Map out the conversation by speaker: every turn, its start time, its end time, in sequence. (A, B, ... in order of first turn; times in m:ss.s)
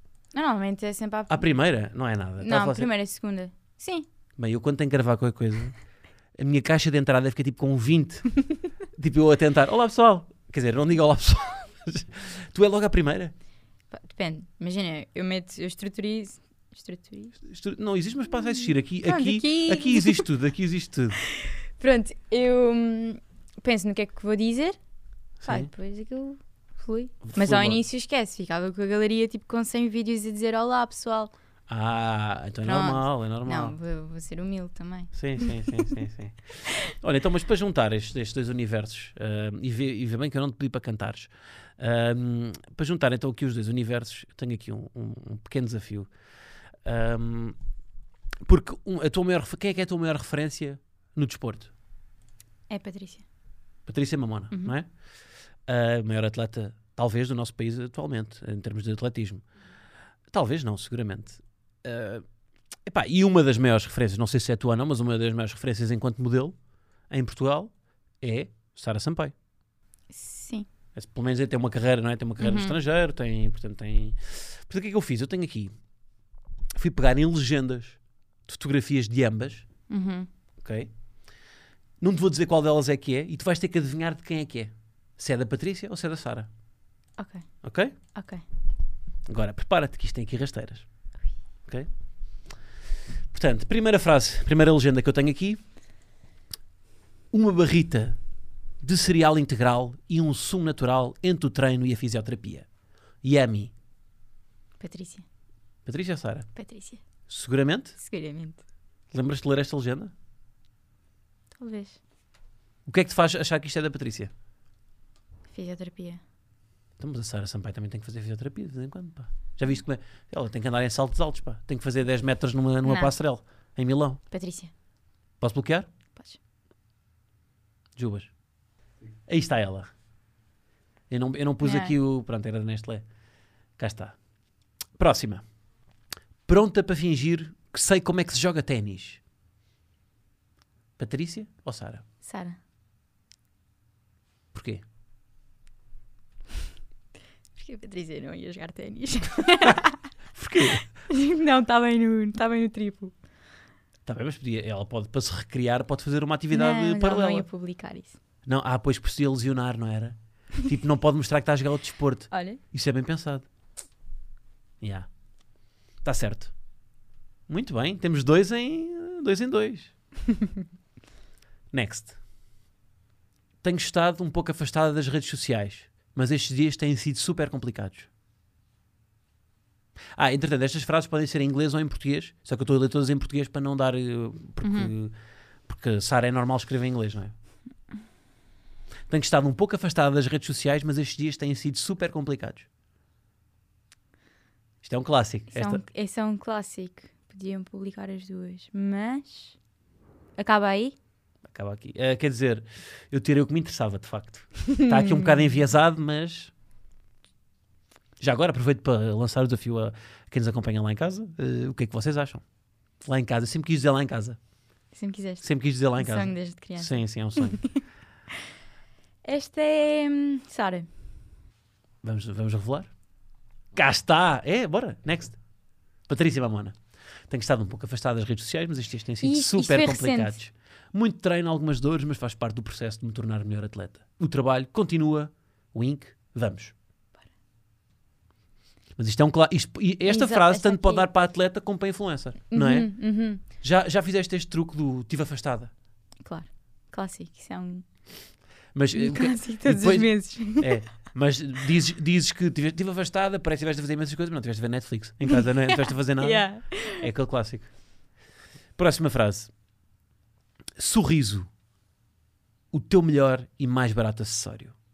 0:00.3-0:01.5 A
0:01.3-0:02.9 B
0:02.4-0:04.1 A
0:04.4-0:05.8 B
0:06.4-0:08.3 B
0:09.0-0:13.3 B
0:13.9-0:17.4 A
0:17.4-0:21.2 B
0:19.0-0:20.3 A
0:21.4-0:24.8 A
0:25.4-0:25.7 B
0:25.4-0:31.3 A
0:27.2-0:27.8 B
0:31.7-0:33.8 B
0:32.6-0:35.9 A
0:35.1-0:46.1 B
0:46.8-0:47.6 B
0:48.4-0:51.7 B
0:52.7-0:53.2 A
0:53.9-0:54.9 B
0:55.7-0:59.4 B
1:00.3-1:02.2 B
1:02.9-1:06.6 B
1:07.1-1:09.3 B
1:10.1-1:10.7 A
1:11.0-1:15.7 B
1:12.4-1:12.8 A
1:16.8-1:19.7 B
1:19.9-1:20.3 A
1:20.6-1:20.9 B
1:22.0-1:26.5 B
1:27.2-1:27.5 A
1:27.6-1:27.9 B
1:28.1-1:28.4 A
1:29.3-1:30.9 B
1:33.3-1:35.6 B
1:37.3-1:38.2 B
1:38.8-1:42.7 B
1:43.2-1:43.7 B
1:44.8-1:45.2 A
1:45.9-1:46.5 B
1:46.6-1:47.0 A
1:47.3-1:48.0 B
1:48.0-1:48.6 A
1:49.1-1:50.1 B
1:51.6-1:52.0 A
1:52.9-1:54.3 B
1:55.5-1:56.2 A
1:57.0-2:04.2 B
2:02.8-2:03.1 A
2:04.3-2:04.7 A
2:05.4-2:05.9 B
2:08.0-2:08.3 B
2:09.3-2:09.9 B
2:11.1-2:13.1 B
2:11.6-2:11.9 A
2:13.8-2:14.2 B
2:15.0-2:15.4 B
2:16.5-2:19.2 B
2:21.0-2:22.0 B
2:22.2-2:22.6 A
2:24.5-2:24.8 B
2:27.6-2:30.0 A
2:30.3-2:30.9 B
2:31.1-2:33.2 A
2:34.0-2:37.5 B
2:36.5-2:38.2 A
2:38.5-2:43.5 B
2:42.3-2:42.6 A
2:44.8-2:45.1 B
2:46.0-2:46.5 B
2:47.5-2:49.9 B
2:51.7-2:52.2 B
2:53.6-2:58.1 B
3:00.2-3:05.1 B
3:04.6-3:04.9 A
3:05.7-3:07.3 B
3:09.1-3:12.7 B
3:14.8-3:15.8 B
3:15.5-3:19.6 A
3:20.4-3:21.0 A
3:21.4-3:26.5 B
3:28.2-3:32.4 B
3:33.0-3:34.4 B
3:34.9-3:37.8 A
3:35.4-3:37.7 B
3:39.2-3:40.9 A
3:42.0-3:42.9 B
3:43.7-3:45.4 B
3:46.1-3:56.7 B
3:49.2-3:50.4 A
3:59.0-4:05.7 B
4:00.1-4:01.1 A
4:02.5-4:03.4 A
4:06.2-4:07.9 A
4:08.7-4:17.7 B
4:08.9-4:10.8 A
4:15.3-4:17.1 A
4:18.8-4:19.5 B
4:20.8-4:21.5 B
4:22.7-4:24.8 B